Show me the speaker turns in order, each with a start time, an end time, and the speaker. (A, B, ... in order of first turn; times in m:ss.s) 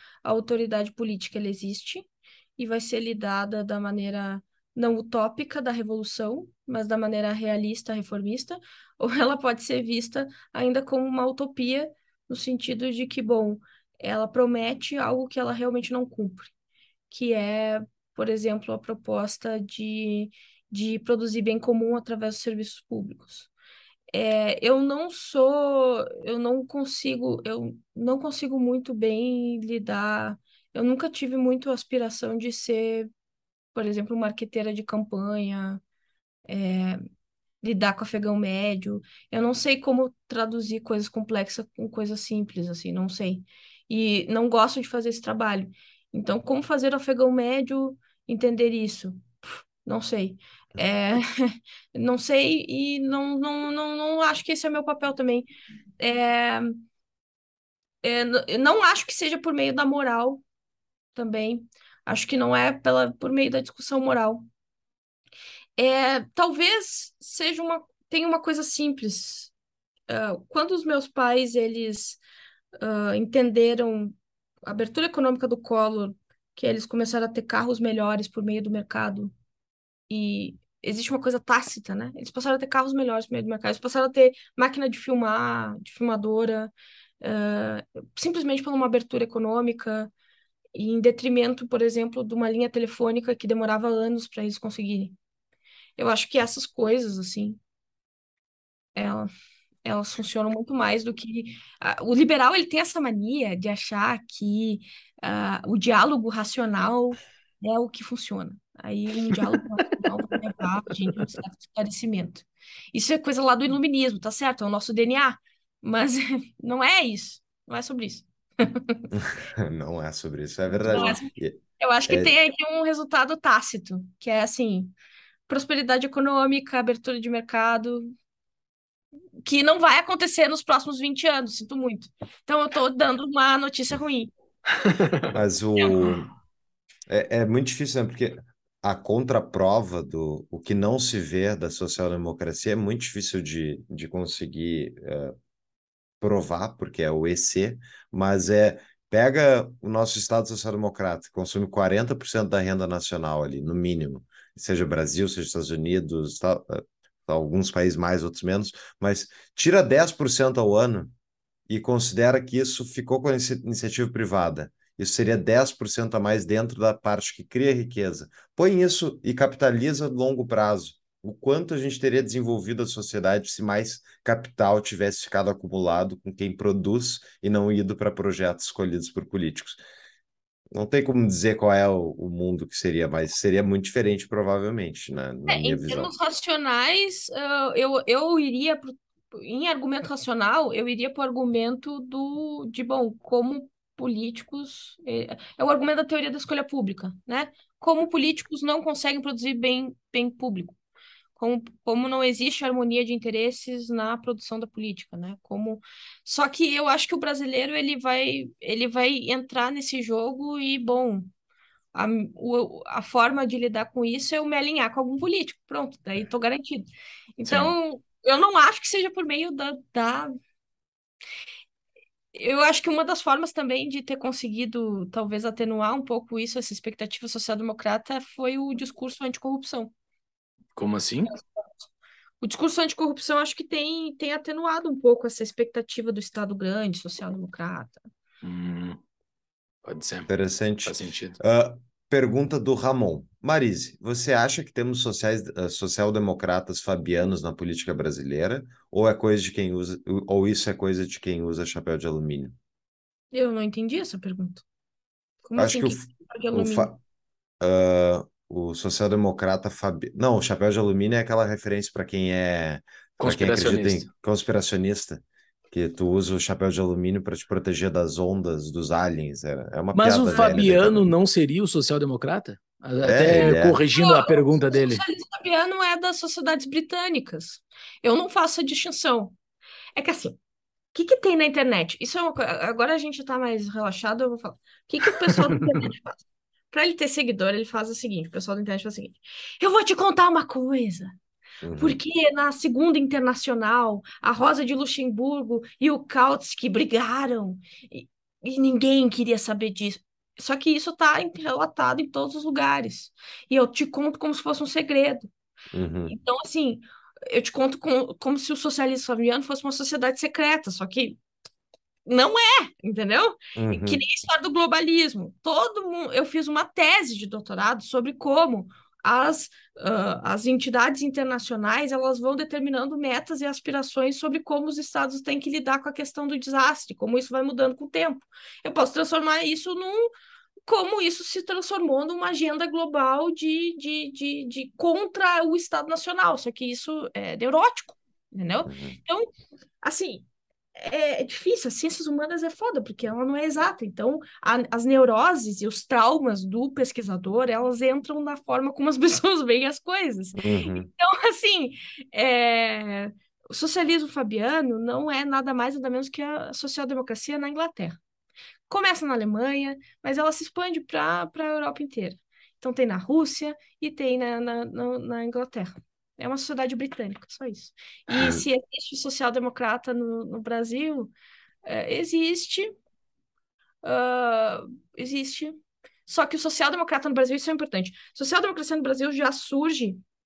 0:00.2-0:16.5 A
0:17.1-0:23.5 A
0:24.1-0:33.1 A
0:33.8-0:35.8 A
0:36.5-0:37.0 A
0:37.6-0:55.5 A
0:56.0-0:56.8 A
0:58.0-1:00.4 A
1:01.2-1:04.5 A
1:05.8-1:09.5 A
1:10.1-1:12.2 A
1:12.8-1:19.3 A
1:20.1-1:30.1 A
1:30.8-1:35.2 A
1:36.0-1:37.6 A
1:39.0-1:39.3 A
1:39.8-1:59.1 A
1:59.1-2:02.4 B
2:00.9-2:05.0 A
2:05.5-2:08.1 A
2:09.4-2:14.3 A
2:15.0-2:15.3 C
2:15.3-2:16.3 B
2:15.8-2:16.1 A
2:17.1-2:25.4 B
2:26.2-2:41.1 B
2:41.7-2:59.8 B
3:00.7-3:06.1 B
3:05.5-3:20.8 A
3:21.4-3:31.3 A
3:31.9-3:40.3 A
3:42.3-3:49.9 A
3:50.8-3:51.3 C
3:52.4-3:58.0 A
3:58.4-3:59.0 C
3:59.8-4:00.3 C
4:00.3-4:12.6 B
4:00.8-4:01.4 C
4:13.3-4:14.6 A
4:15.4-4:17.0 A
4:15.6-4:17.0 B
4:17.6-4:31.1 B
4:23.2-4:24.1 C
4:29.9-4:35.0 C
4:30.3-4:30.6 A
4:33.0-4:33.8 B
4:34.0-4:39.4 A
4:40.0-4:40.4 A
4:40.9-4:51.2 A
4:45.2-4:45.8 C
4:51.6-4:52.0 B
4:51.8-5:05.3 A
5:05.7-5:06.2 B
5:06.1-5:11.2 A
5:12.1-5:30.1 A
5:13.6-5:14.0 B
5:30.7-5:39.3 A
5:38.7-5:39.0 B
5:39.8-5:58.0 A
5:50.4-5:50.9 B
5:58.7-6:11.1 A
6:11.6-6:12.7 A
6:13.8-6:20.0 A